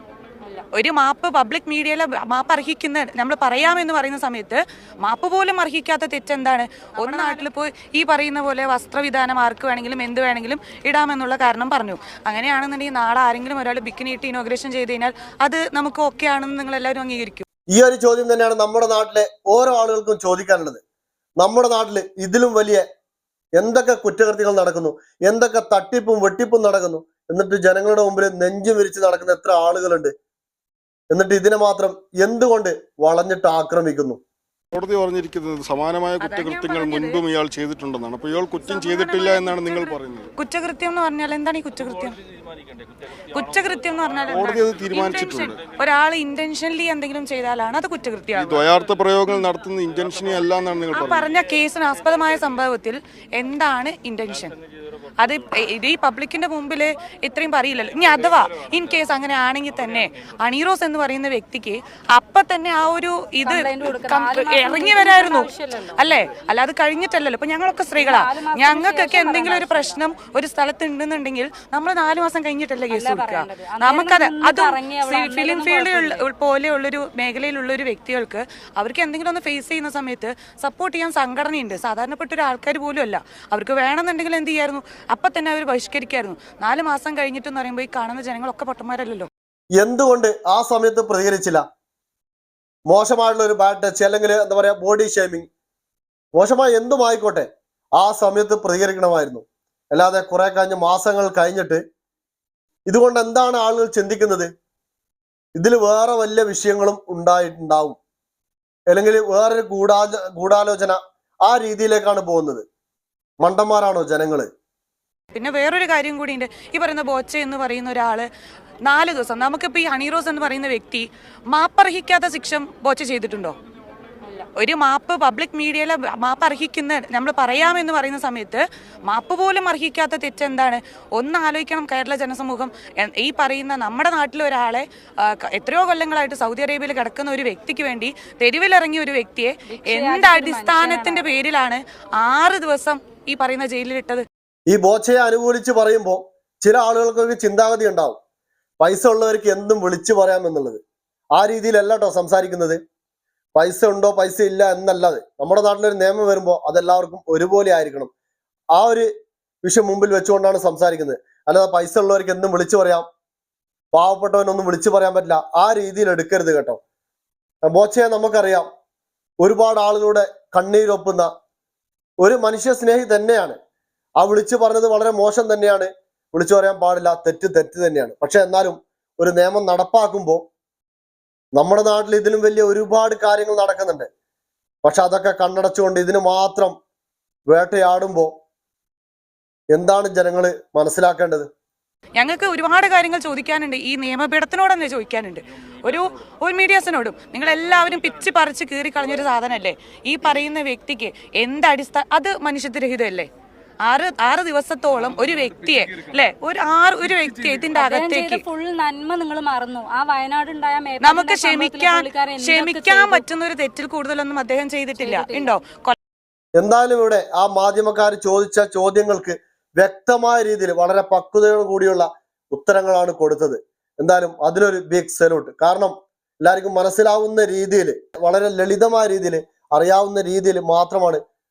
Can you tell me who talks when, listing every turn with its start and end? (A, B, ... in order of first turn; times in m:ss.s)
0:00.7-0:17.4 A
0:07.0-0:07.4 B
0:17.7-0:20.8 C
0:21.4-0:22.8 C
0:23.6-0:30.1 C
0:31.1-0:34.2 C
0:34.7-0:40.3 D
0:36.2-0:37.2 A
0:38.6-0:42.2 A
0:43.3-0:48.7 A
0:44.3-0:45.6 D
0:48.3-0:51.2 D
0:50.9-0:54.6 A
0:55.2-1:29.3 A
1:03.4-1:06.0 B
1:08.0-1:10.0 B
1:12.9-1:16.2 B
1:29.8-1:31.6 C
1:32.9-1:35.5 C
1:36.3-1:41.8 C
1:42.9-1:44.5 C
1:45.6-1:48.0 C
1:48.9-1:52.6 C
1:53.4-1:54.5 C
1:55.3-1:58.3 A
1:58.8-2:03.6 A
2:04.6-2:24.2 A
2:19.7-2:21.3 B
2:24.7-2:28.2 C
2:28.8-2:30.8 C
2:31.3-2:32.8 C
2:33.5-2:38.1 C
2:38.7-2:39.1 C
2:39.6-2:43.1 C
2:43.9-2:46.8 C
2:47.6-2:48.7 C
2:49.4-2:51.3 C
2:52.2-2:53.6 C
2:54.2-3:00.4 C
3:01.6-3:04.1 C
3:04.8-3:06.8 C
3:07.5-3:08.3 C
3:09.7-3:11.5 C
3:12.2-3:23.3 A
3:23.8-3:28.4 A
3:27.7-3:33.2 B
3:31.0-3:36.0 A
3:35.0-3:35.5 B
3:36.6-3:51.2 C